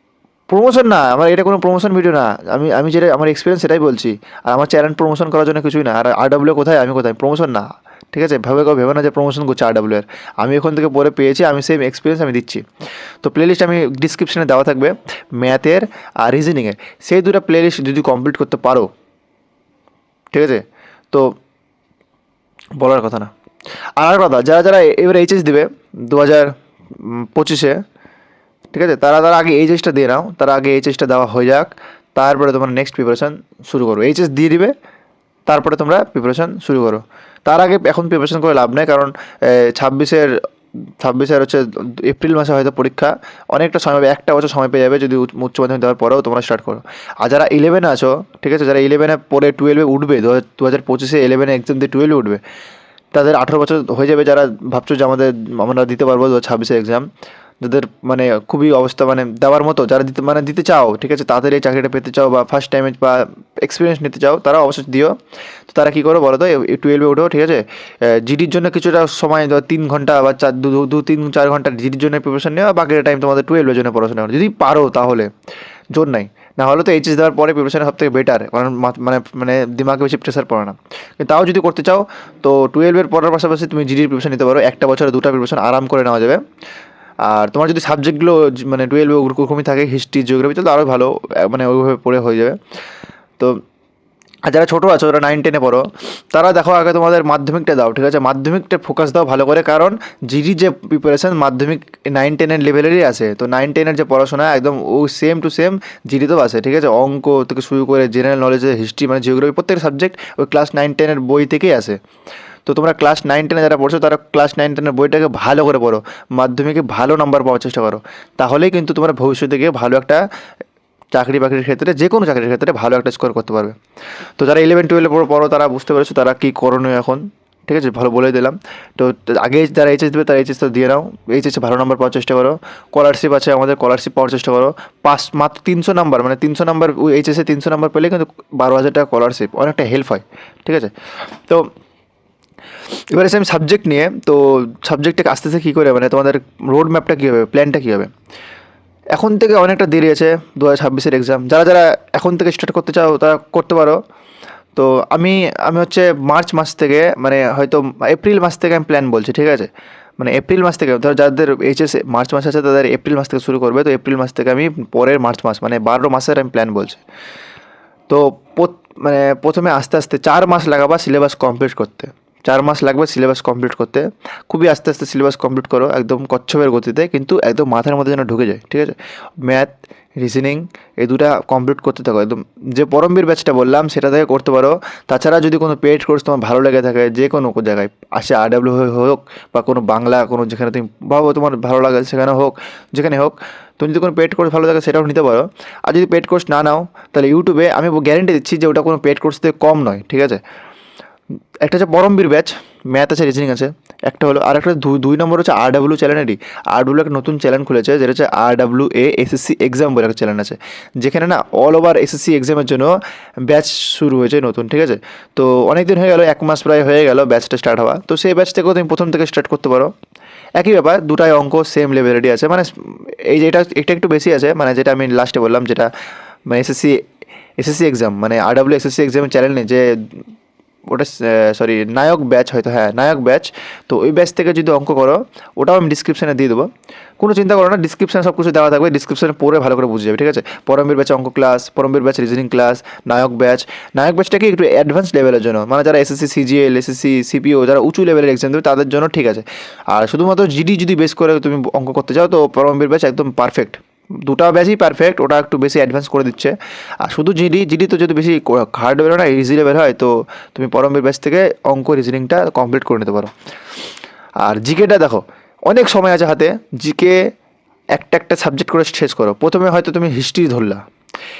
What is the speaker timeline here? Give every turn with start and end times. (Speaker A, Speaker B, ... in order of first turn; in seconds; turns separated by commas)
Speaker A: 0.5-12.6, Speaker A: 13.2-18.9, Speaker A: 20.3-21.4, Speaker A: 22.8-23.3, Speaker A: 24.0-27.8, Speaker A: 28.7-34.7, Speaker A: 35.5-40.3, Speaker A: 41.0-52.4, Speaker A: 53.1-57.1, Speaker A: 57.6-65.1, Speaker A: 65.7-75.3, Speaker A: 75.9-86.4, Speaker A: 87.2-92.6, Speaker A: 94.5-112.0, Speaker A: 112.7-120.2, Speaker A: 121.1-123.8, Speaker A: 124.4-141.7, Speaker A: 142.9-148.1, Speaker A: 149.1-154.0, Speaker A: 154.8-167.0, Speaker A: 168.1-200.4, Speaker A: 201.6-219.9, Speaker A: 220.6-225.9, Speaker A: 226.5-227.0, Speaker A: 227.6-230.2, Speaker A: 230.9-236.7, Speaker A: 237.2-263.3, Speaker A: 264.4-267.3, Speaker A: 267.9-270.8